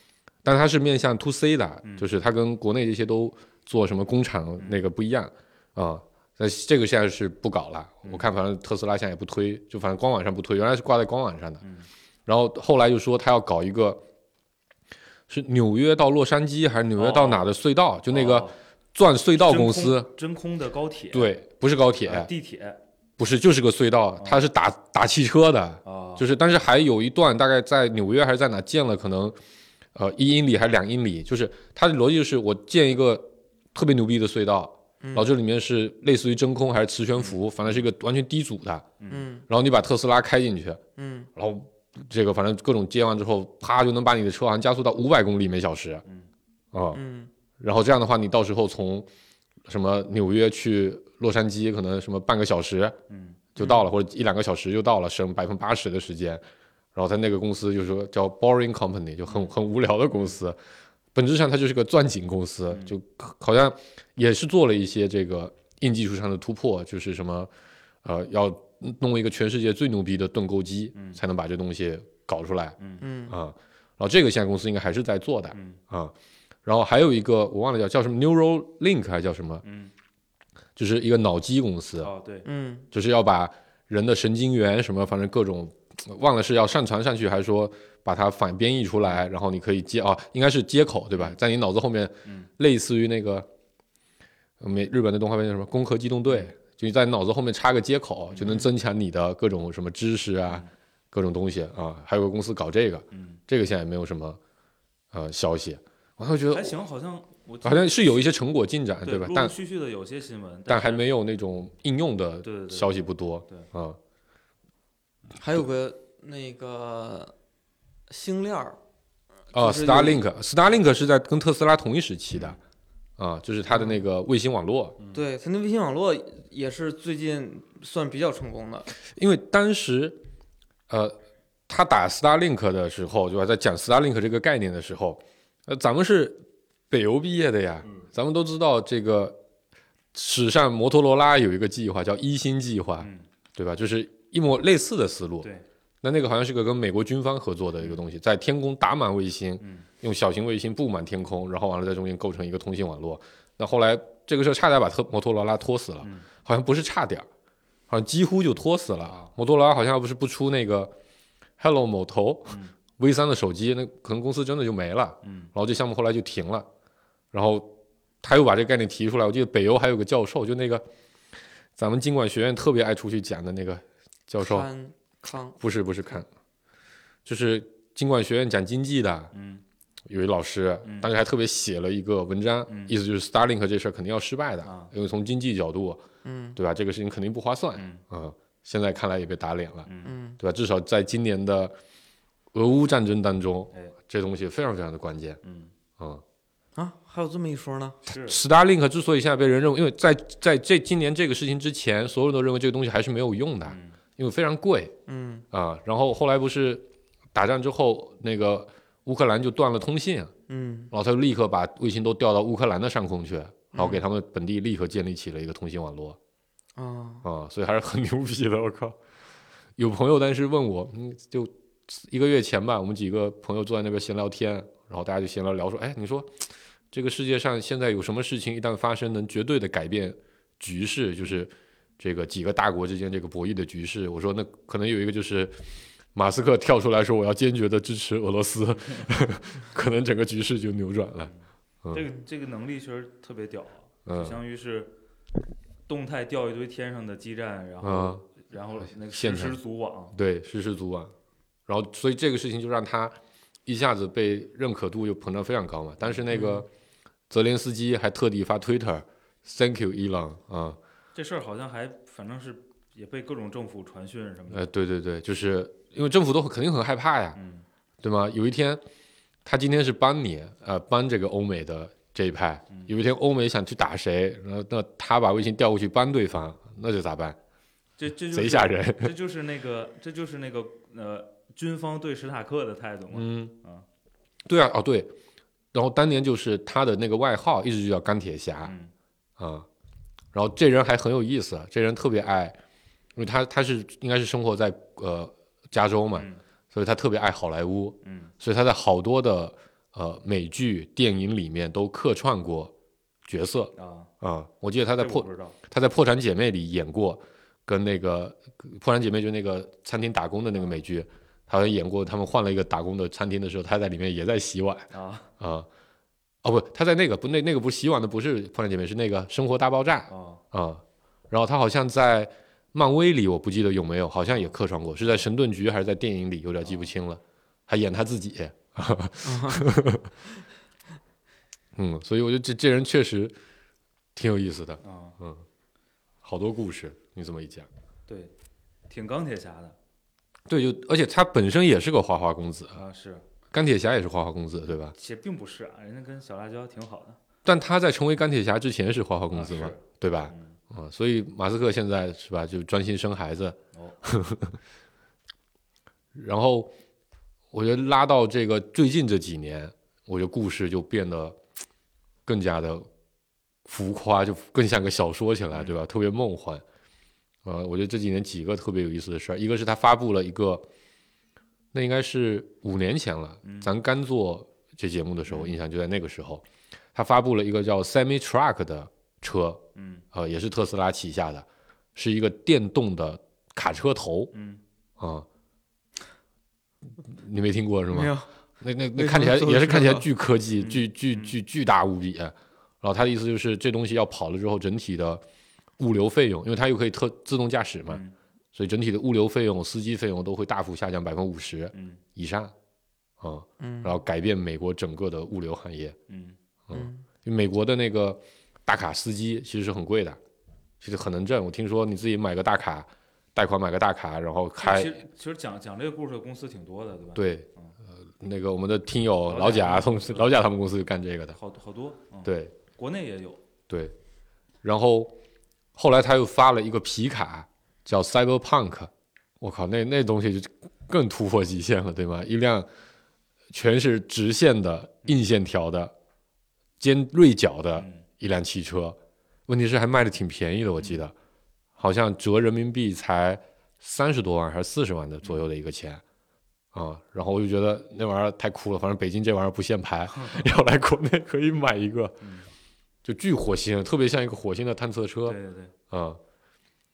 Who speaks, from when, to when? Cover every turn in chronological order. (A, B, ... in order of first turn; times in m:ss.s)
0:00.4-0:11.6 A
0:08.0-0:08.3 B
0:11.6-0:11.9 B
0:12.3-0:14.0 A
0:15.3-0:20.1 A
0:17.0-0:17.5 B
0:18.1-0:18.6 B
0:19.4-0:21.3 B
0:21.1-0:22.3 A
0:22.0-0:22.8 B
0:23.2-0:29.4 A
0:25.8-0:26.2 B
0:30.0-0:38.9 A
0:35.0-0:35.3 C
0:37.2-0:37.8 B
0:39.0-0:39.3 B
0:39.1-0:39.4 C
0:39.5-0:40.8 A
0:41.0-0:41.3 C
0:41.4-0:46.0 A
0:46.7-0:47.0 A
0:46.9-0:47.3 C
0:47.6-0:49.1 A
0:49.7-0:53.0 A
0:53.1-0:53.5 B
0:53.6-0:56.4 A
0:57.0-1:00.6 A
0:59.3-0:59.5 B
1:01.2-1:07.5 A
1:08.0-1:12.8 A
1:12.8-1:13.0 B
1:13.0-1:13.4 C
1:13.3-1:16.1 A
1:15.5-1:15.8 B
1:16.6-1:19.6 A
1:19.6-1:19.9 B
1:20.8-1:22.1 A
1:22.0-1:22.5 B
1:22.4-1:22.9 C
1:22.9-1:33.5 A
1:34.6-1:44.4 A
1:36.3-1:36.5 B
1:38.3-1:38.7 B
1:43.1-1:43.4 B
1:45.1-1:46.8 A
1:46.5-1:48.0 B
1:47.6-1:49.5 A
1:49.0-1:51.1 B
1:50.7-1:54.0 A
1:52.4-1:53.7 B
1:55.4-1:57.3 C
1:58.1-1:58.8 C
1:59.5-2:02.6 A
1:59.5-2:00.2 C
2:02.3-2:02.6 B
2:03.2-2:05.0 A
2:05.1-2:08.9 C
2:09.1-2:10.2 A
2:10.9-2:11.2 A
2:11.7-2:19.4 A
2:20.1-2:25.5 A
2:23.0-2:23.3 B
2:26.0-2:37.3 A
2:29.6-2:29.9 B
2:37.9-2:40.9 A
2:41.6-2:46.7 A
2:42.5-2:42.7 B
2:45.2-2:45.5 B
2:47.3-2:50.8 A
2:51.8-2:54.7 A
2:54.4-2:55.6 C
2:55.6-2:56.3 A
2:57.2-2:59.3 A
2:59.3-2:59.6 B
3:00.1-3:06.0 A
3:00.8-3:01.1 B
3:02.7-3:03.0 B
3:04.6-3:04.9 B
3:06.2-3:06.6 C
3:06.6-3:09.9 A
3:07.8-3:08.0 B
3:09.9-3:10.1 B
3:10.0-3:10.4 C
3:10.4-3:11.8 A
3:12.5-3:15.4 A
3:15.4-3:15.7 B
3:16.0-3:16.2 A
3:16.8-3:18.0 C
3:18.1-3:18.4 B
3:18.1-3:25.0 A
3:23.7-3:24.0 B
3:25.1-3:25.4 C
3:25.5-3:30.3 A
3:30.5-3:30.9 C
3:30.9-3:36.2 A
3:33.7-3:34.0 C
3:36.8-3:37.2 C
3:37.2-3:39.0 A
3:39.8-3:55.6 A
3:56.2-4:01.3 A
4:01.9-4:04.9 B
4:04.1-4:04.4 A
4:05.9-4:10.2 B
4:07.8-4:08.2 A
4:09.1-4:09.6 A
4:10.1-4:11.1 A
4:11.7-4:13.2 A
4:13.7-4:16.7 A
4:16.3-4:16.6 C
4:17.3-4:20.8 A
4:21.2-4:24.7 B
4:24.5-4:27.4 A
4:27.4-4:27.6 B
4:28.0-4:28.8 A
4:29.4-4:37.4 A
4:38.0-4:43.8 B
4:38.3-4:39.1 A
4:43.1-4:43.5 A
4:44.5-4:45.1 A
4:45.7-4:48.7 A
4:48.6-4:48.9 B
4:49.4-4:49.7 A
4:50.3-4:52.6 A
4:53.2-5:02.7 A
4:56.2-4:56.4 B
4:58.0-4:58.3 B
5:03.3-5:15.7 A
5:03.8-5:04.1 B
5:05.0-5:05.6 B
5:14.9-5:15.3 B
5:16.4-5:30.1 A
5:20.1-5:20.4 B
5:26.6-5:26.9 B
5:29.2-5:29.6 C
5:31.8-5:33.4 A
5:34.2-5:35.4 A
5:34.8-5:35.2 B
5:36.2-5:37.7 A
5:38.1-5:38.3 B
5:38.9-5:39.8 B
5:40.5-5:42.8 A
5:42.8-5:43.2 B
5:43.5-5:45.0 A
5:45.0-5:47.2 B
5:47.4-5:54.6 A
5:49.3-5:50.6 B
5:56.1-5:56.7 A
5:57.5-6:01.4 A
6:02.3-6:02.9 A
6:03.6-6:06.6 A
6:07.4-6:10.7 A
6:11.7-6:24.3 A
6:13.4-6:13.7 B
6:15.3-6:15.6 B
6:19.8-6:20.0 B
6:24.3-6:24.6 B
6:25.0-6:25.3 A
6:27.1-6:35.2 A
6:27.9-6:28.3 C
6:28.9-6:30.1 C
6:30.6-6:31.4 B
6:35.8-6:38.0 A
6:37.9-6:38.1 B
6:38.5-6:42.5 A
6:41.7-6:42.0 B
6:43.2-6:46.0 A
6:43.6-6:44.0 C
6:46.1-6:46.4 B
6:46.7-6:50.2 A
6:46.7-6:47.0 C
6:50.8-6:55.0 A
6:54.6-6:57.7 B
6:57.1-6:57.5 A
6:58.2-7:01.4 A
6:59.3-7:00.4 B
7:01.4-7:03.4 B
7:02.2-7:02.5 A
7:03.7-7:03.9 A
7:04.6-7:05.2 A
7:05.8-7:12.7 A
7:13.5-7:15.9 A
7:16.8-7:21.1 A
7:17.8-7:18.0 B
7:21.8-7:26.0 A
7:26.7-7:32.2 A
7:30.2-7:30.4 B
7:32.2-7:32.5 B
7:33.0-7:35.4 A
7:35.3-7:35.7 B
7:35.9-7:36.2 A